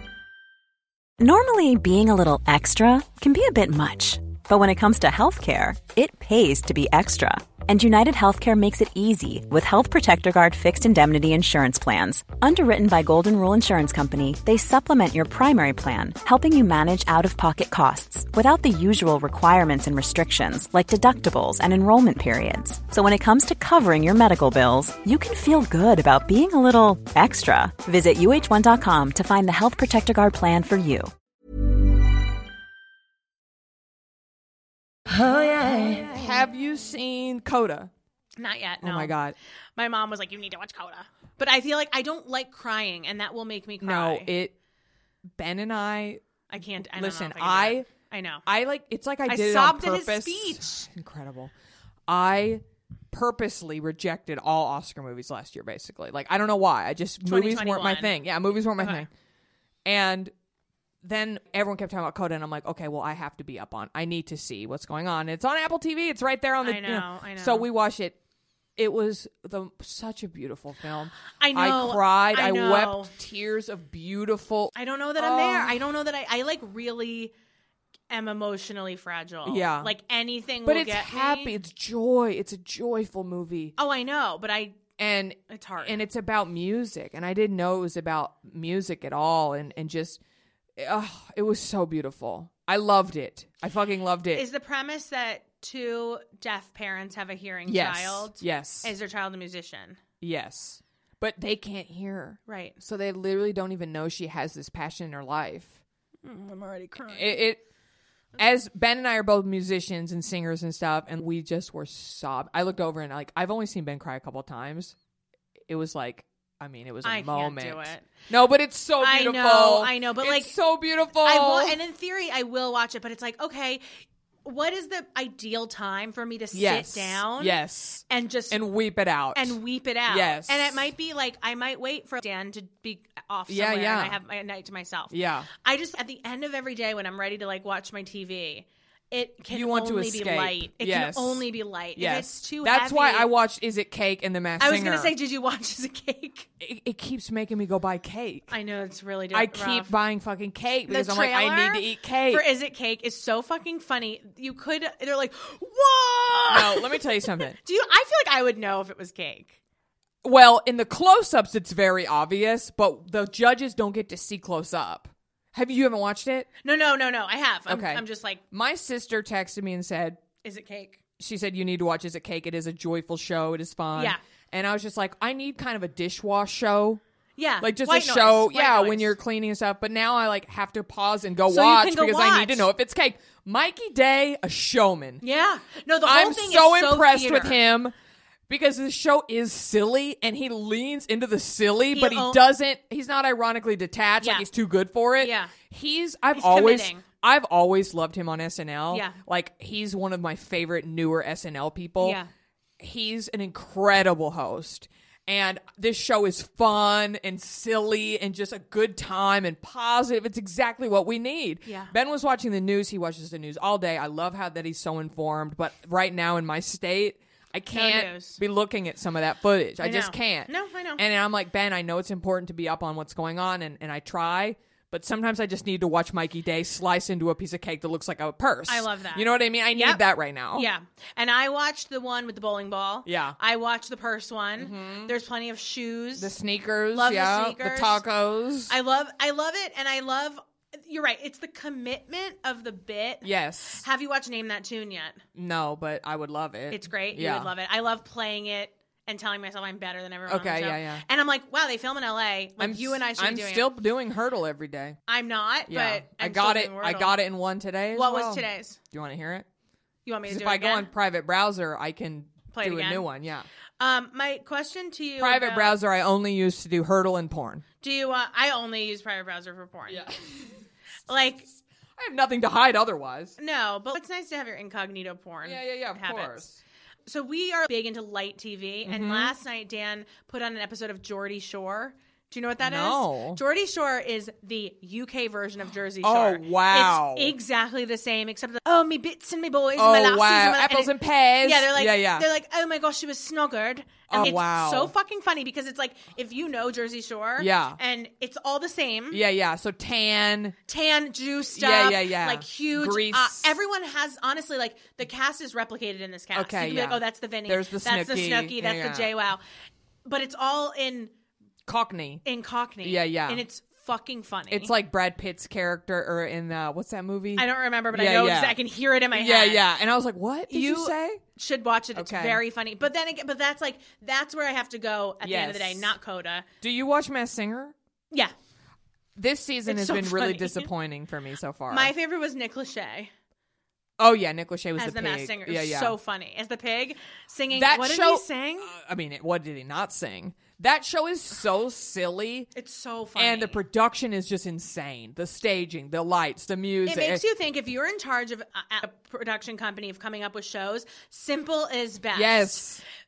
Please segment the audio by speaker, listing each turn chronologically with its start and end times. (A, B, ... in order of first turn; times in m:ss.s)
0:01.2-0:31.1 A
0:36.0-0:37.9 B
0:38.4-0:39.1 C
0:38.8-0:39.3 B
0:39.8-0:44.3 C
0:43.8-0:44.5 B
0:45.4-0:46.2 B
0:46.5-0:48.4 C
0:46.9-0:47.9 B
0:48.4-0:51.5 B
0:49.2-0:50.9 C
0:52.1-0:59.1 B
0:57.2-0:58.1 C
0:58.8-0:59.0 C
0:59.8-1:00.3 B
1:01.0-1:08.2 B
1:06.6-1:07.7 C
1:08.8-1:15.8 B
1:11.4-1:13.1 C
1:14.8-1:17.3 C
1:18.1-1:21.5 C
1:19.4-1:19.9 B
1:20.6-1:23.7 B
1:23.8-1:24.8 C
1:25.0-1:30.2 B
1:25.5-1:26.0 C
1:30.8-1:34.4 B
1:34.3-1:40.0 C
1:37.7-1:38.9 B
1:40.2-1:45.8 B
1:42.5-1:42.8 C
1:46.2-1:47.4 C
1:47.1-1:47.6 B
1:48.4-1:54.9 B
1:55.7-2:01.8 B
1:57.0-1:58.1 C
1:59.0-2:00.5 C
2:01.2-2:03.8 C
2:04.4-2:07.6 C
2:06.5-2:10.9 B
2:08.1-2:08.6 C
2:09.3-2:23.3 C
2:13.5-2:14.2 B
2:15.1-2:15.5 B
2:19.5-2:21.4 B
2:22.0-2:25.1 B
2:24.6-2:26.5 C
2:26.6-2:28.5 B
2:28.5-2:29.9 C
2:29.3-2:32.4 B
2:30.9-2:39.6 C
2:36.5-2:37.6 B
2:40.2-2:46.5 B
2:46.6-2:48.4 C
2:47.7-2:50.2 B
2:50.4-2:51.0 C
2:51.2-2:57.0 B
2:57.4-2:59.1 C
2:57.6-3:05.2 B
3:01.5-3:02.7 C
3:05.2-3:07.6 C
3:06.0-3:07.9 B
3:08.5-3:22.2 B
3:11.9-3:12.4 C
3:14.2-3:14.5 C
3:15.2-3:15.5 C
3:16.3-3:17.0 C
3:18.9-3:19.2 C
3:22.0-3:22.3 C
3:22.8-3:50.7 B
3:31.6-3:31.9 C
3:37.7-3:38.4 C
3:39.8-3:41.0 C
3:48.7-3:50.0 C
3:50.5-3:56.3 C
3:53.0-3:53.4 B
3:54.6-3:55.1 B
3:56.2-3:58.7 B
3:56.9-3:58.0 C
3:58.7-4:03.3 C
4:03.2-4:03.8 B
4:03.8-4:05.2 C
4:05.3-4:07.5 B
4:06.7-4:13.7 C
4:10.3-4:11.0 B
4:12.6-4:15.0 B
4:15.1-4:17.2 C
4:15.7-4:19.4 B
4:17.9-4:18.8 C
4:20.0-4:20.9 C
4:20.3-4:23.5 B
4:22.5-4:23.0 C
4:23.8-4:25.8 C
4:25.2-4:27.6 B
4:27.8-4:30.0 C
4:29.9-4:30.6 B
4:31.1-4:31.4 C
4:32.0-4:33.3 B
4:33.4-4:36.4 C
4:35.4-4:36.6 B
4:37.1-4:59.2 C
4:38.8-4:39.3 B
4:42.6-4:43.4 B
4:46.0-4:47.3 B
4:49.8-4:52.3 B
4:54.1-4:54.9 B
4:57.4-4:57.8 B
4:59.1-5:00.6 B
5:00.7-5:09.4 C
5:01.5-5:03.5 B
5:06.3-5:09.1 B
5:10.0-5:11.1 C
5:11.7-5:12.2 B
5:12.2-5:14.7 C
5:12.8-5:13.4 B
5:14.5-5:18.6 B
5:17.4-5:19.6 C
5:19.1-5:21.2 B
5:20.5-5:26.4 C
5:21.9-5:22.4 B
5:25.2-5:25.9 B
5:26.6-5:27.7 B
5:29.2-5:31.9 B
5:29.7-5:30.7 C
5:31.7-5:33.1 C
5:34.0-5:36.0 B
5:34.8-5:38.7 C
5:37.5-5:42.5 B
5:42.6-5:43.6 C
5:43.2-5:47.2 B
5:46.8-5:52.7 C
5:52.1-5:52.8 B